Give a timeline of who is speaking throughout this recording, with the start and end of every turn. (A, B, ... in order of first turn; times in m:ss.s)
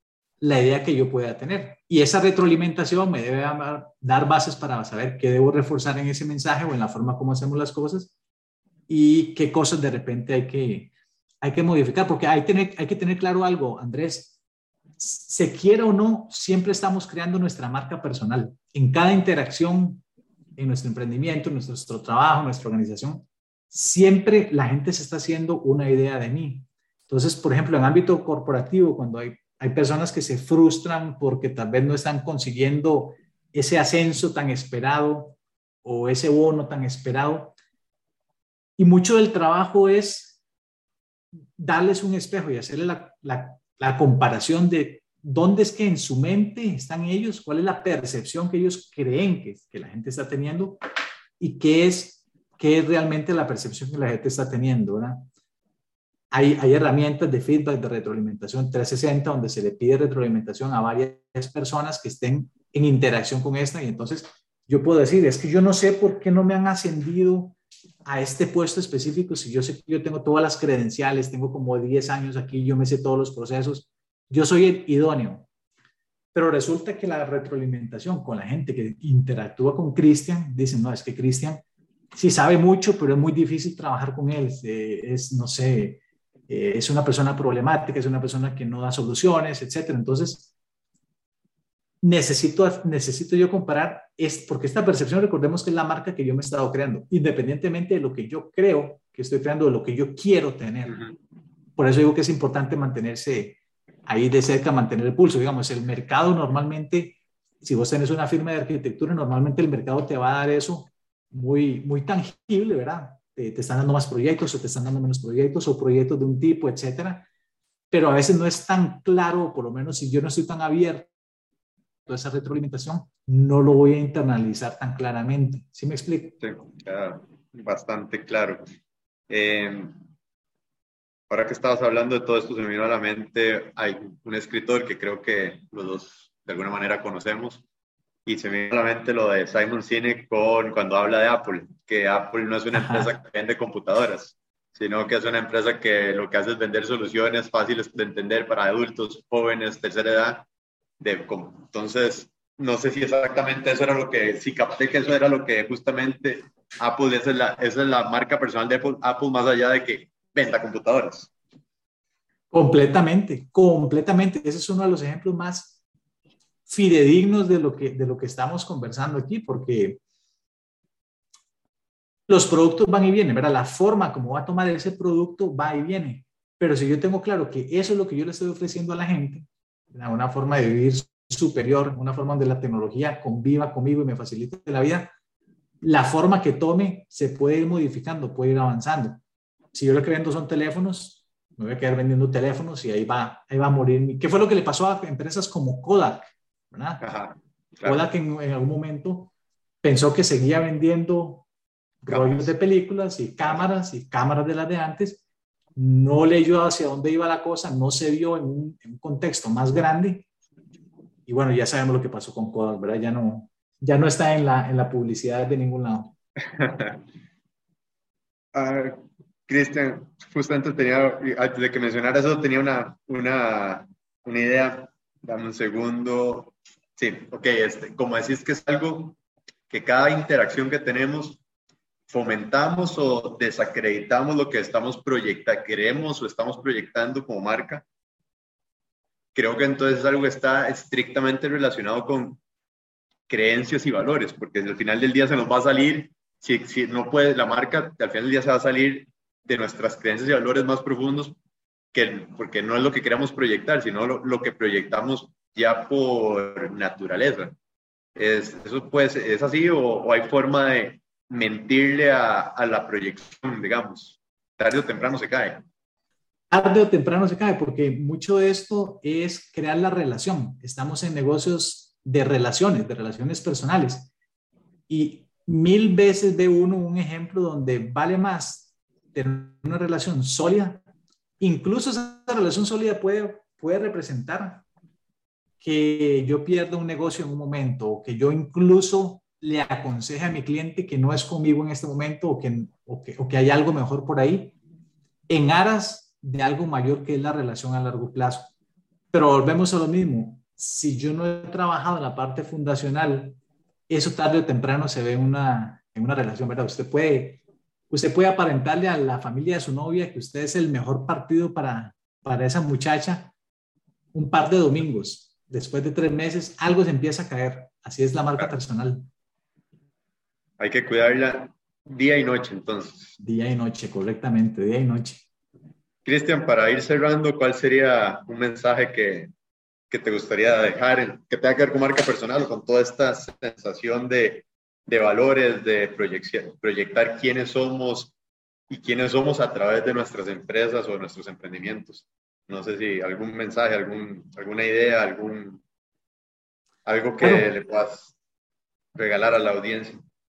0:00.4-0:08.1 A
0:08.9-0:10.9 A
0:11.4-0:14.3 A
0:15.0-0:20.0 A
0:20.6-0:37.5 A
0:38.8-0:40.4 A
0:41.6-0:50.8 A
0:51.4-0:55.3 A
0:56.3-1:15.5 A
1:16.3-1:21.6 A
1:22.1-1:30.5 A
1:32.0-1:41.0 A
1:41.8-1:57.3 A
1:57.9-2:01.1 A
2:02.1-2:06.4 A
2:06.4-2:08.6 B
2:09.3-2:10.0 B
2:11.3-2:17.6 B
2:18.2-2:30.4 B
2:22.7-2:23.2 A
2:31.0-2:41.3 B
2:42.5-2:45.8 A
2:46.7-2:50.0 A
2:52.3-3:05.1 A
3:05.8-3:09.2 A
3:09.7-3:17.0 A
3:17.0-3:18.0 B
3:17.8-3:19.3 A
3:19.8-3:21.4 A
3:22.0-3:25.2 A
3:22.1-3:22.5 B
3:25.8-3:30.3 A
3:31.3-3:36.1 A
3:36.5-3:37.0 B
3:38.5-3:49.2 B
3:49.7-3:51.4 B
3:52.1-3:57.8 B
3:59.3-4:02.4 B
4:03.3-4:11.3 B
4:11.9-4:17.5 B
4:18.2-4:25.6 B
4:26.5-4:34.1 A
4:34.9-4:40.8 A
4:41.4-4:44.6 A
4:45.6-4:54.5 A
4:55.3-4:58.5 A
4:59.1-5:03.4 A
5:03.9-5:13.3 A
5:14.1-5:19.1 A
5:20.6-5:23.2 B
5:23.2-5:25.2 A
5:26.0-5:29.3 B
5:29.9-5:38.1 B
5:38.7-5:45.6 B
5:46.8-5:48.1 B
5:47.2-5:47.5 A
5:48.9-5:50.0 B